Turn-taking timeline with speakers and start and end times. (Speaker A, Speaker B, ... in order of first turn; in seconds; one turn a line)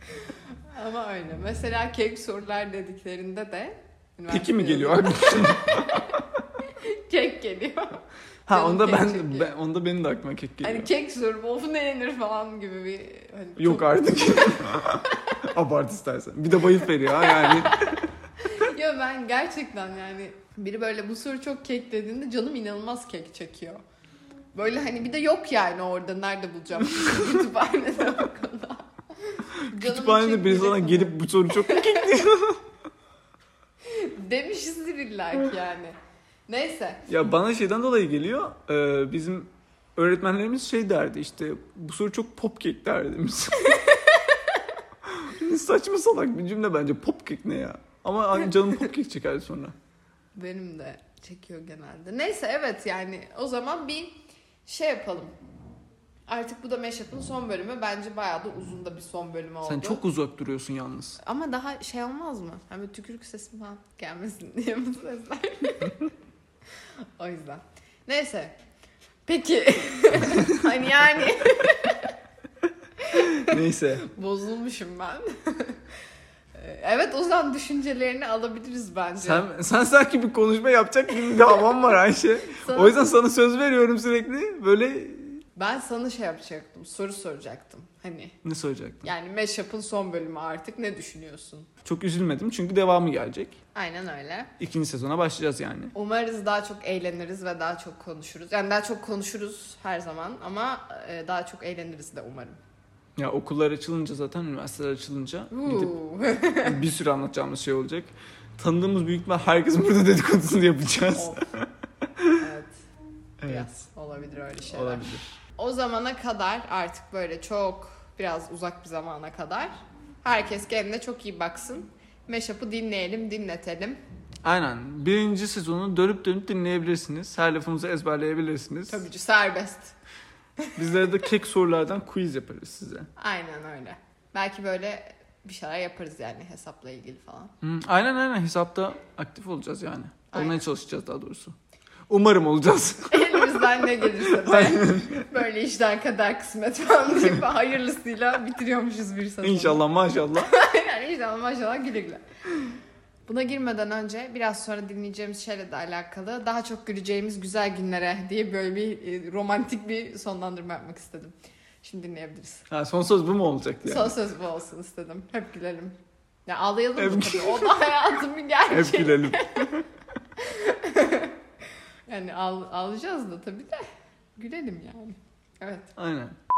Speaker A: 0.7-9.5
Speaker B: 4.3-6.2
Speaker B: 8.4-10.9
Speaker A: 10.6-15.4
Speaker B: 13.6-18.0
Speaker A: 17.1-23.8
Speaker A: 24.5-32.0
Speaker B: 29.6-32.6
Speaker A: 33.8-36.0
Speaker A: 36.5-37.1
Speaker B: 37.1-43.8
Speaker A: 43.7-44.6
Speaker B: 45.0-49.7
Speaker A: 50.4-55.3
Speaker A: 56.3-60.0
Speaker B: 59.6-61.2
Speaker A: 61.2-66.1
Speaker A: 67.2-68.5
Speaker A: 69.2-72.1
Speaker A: 73.0-75.8
Speaker B: 73.1-74.0
Speaker A: 76.5-79.5
Speaker B: 79.2-85.4
Speaker A: 82.5-83.0
Speaker A: 85.5-88.3
Speaker B: 88.4-89.1
Speaker A: 89.0-91.7
Speaker B: 91.8-93.6
Speaker A: 93.7-94.5
Speaker B: 94.6-95.9
Speaker A: 95.9-102.6
Speaker B: 103.2-105.9
Speaker A: 105.5-106.8
Speaker B: 106.6-112.4
Speaker A: 111.1-111.4
Speaker A: 112.4-112.8
Speaker B: 113.4-113.8
Speaker A: 113.4-124.0
Speaker B: 114.7-115.2
Speaker B: 124.4-129.0
Speaker A: 128.9-129.9
Speaker B: 130.8-133.1
Speaker A: 133.2-137.5
Speaker B: 137.6-141.6
Speaker A: 140.3-140.6
Speaker B: 142.1-143.7
Speaker A: 143.1-149.8
Speaker B: 144.2-145.2
Speaker B: 149.4-150.5
Speaker A: 150.3-152.2
Speaker A: 153.3-162.7
Speaker B: 162.7-164.1
Speaker A: 163.8-165.9
Speaker A: 166.5-169.7
Speaker B: 167.0-167.8
Speaker B: 168.7-169.9
Speaker A: 170.4-171.3
Speaker A: 172.1-173.8
Speaker A: 174.4-175.9
Speaker B: 175.9-176.4